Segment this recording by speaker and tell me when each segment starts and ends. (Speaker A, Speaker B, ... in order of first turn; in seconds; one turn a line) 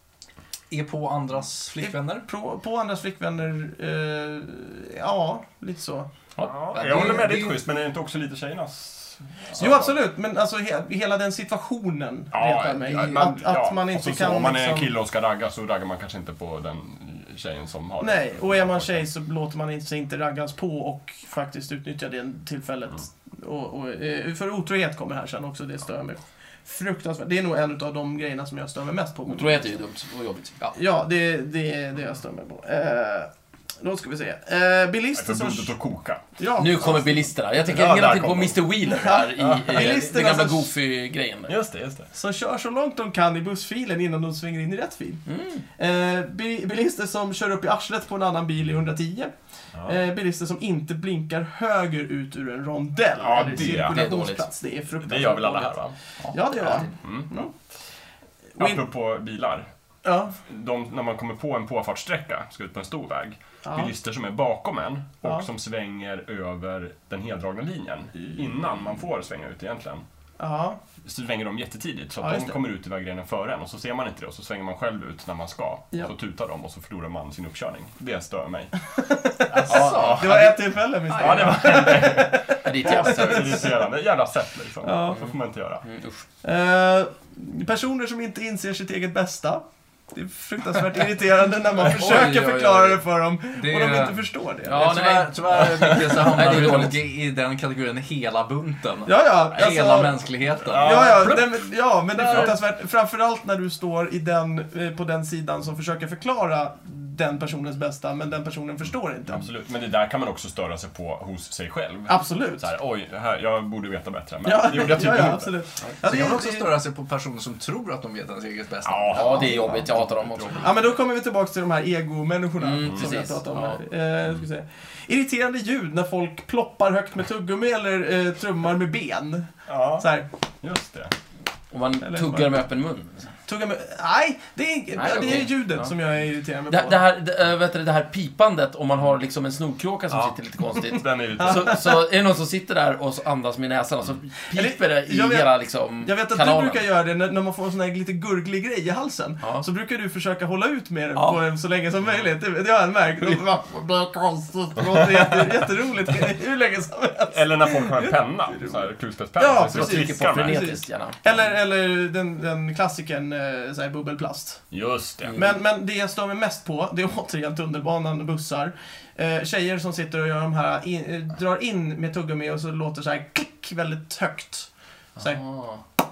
Speaker A: 0.7-2.3
Speaker B: 1.8-6.1
Speaker C: 6.4-7.1
Speaker D: 6.4-9.9
Speaker A: 6.8-7.6
Speaker B: 9.6-14.9
Speaker D: 12.3-19.1
Speaker A: 12.7-13.6
Speaker B: 18.0-29.7
Speaker C: 29.3-30.8
Speaker B: 30.7-33.3
Speaker B: 33.8-35.7
Speaker D: 35.1-36.2
Speaker B: 36.4-37.2
Speaker C: 36.6-41.5
Speaker D: 37.6-38.7
Speaker B: 38.9-40.7
Speaker D: 39.4-40.0
Speaker D: 41.5-42.1
Speaker B: 42.1-45.2
Speaker C: 45.3-45.6
Speaker B: 45.8-57.5
Speaker D: 49.8-50.0
Speaker D: 53.2-54.1
Speaker C: 53.4-54.5
Speaker D: 55.0-56.0
Speaker D: 56.6-57.4
Speaker D: 58.6-59.7
Speaker B: 60.0-60.4
Speaker D: 60.4-70.0
Speaker B: 63.6-63.9
Speaker B: 70.4-70.8
Speaker D: 71.0-78.7
Speaker B: 72.2-72.6
Speaker B: 79.0-83.7
Speaker A: 79.5-80.3
Speaker C: 79.7-80.6
Speaker D: 79.7-80.4
Speaker D: 81.1-85.8
Speaker C: 82.6-83.7
Speaker B: 84.8-85.3
Speaker C: 85.8-86.2
Speaker B: 86.4-95.0
Speaker A: 91.8-101.3
Speaker C: 94.7-97.0
Speaker D: 95.8-96.1
Speaker B: 99.1-100.2
Speaker D: 100.7-101.5
Speaker B: 100.7-109.5
Speaker A: 102.2-102.6
Speaker D: 102.2-102.5
Speaker D: 109.3-115.5
Speaker B: 112.1-112.7
Speaker B: 114.4-116.7
Speaker A: 116.0-119.8
Speaker D: 118.8-120.6
Speaker C: 119.1-120.8
Speaker B: 120.6-130.3
Speaker C: 122.6-123.8
Speaker D: 129.7-130.1
Speaker D: 130.6-131.1
Speaker C: 131.7-133.3
Speaker B: 132.0-132.6
Speaker B: 133.5-137.0
Speaker C: 135.0-135.9
Speaker C: 136.7-146.8
Speaker D: 140.1-141.8
Speaker B: 144.5-145.5
Speaker B: 146.0-158.1
Speaker C: 151.2-151.4
Speaker D: 157.3-160.8
Speaker B: 159.4-164.7
Speaker C: 159.7-161.2
Speaker D: 164.7-165.3
Speaker C: 165.2-165.6
Speaker B: 165.3-174.7
Speaker C: 175.2-175.8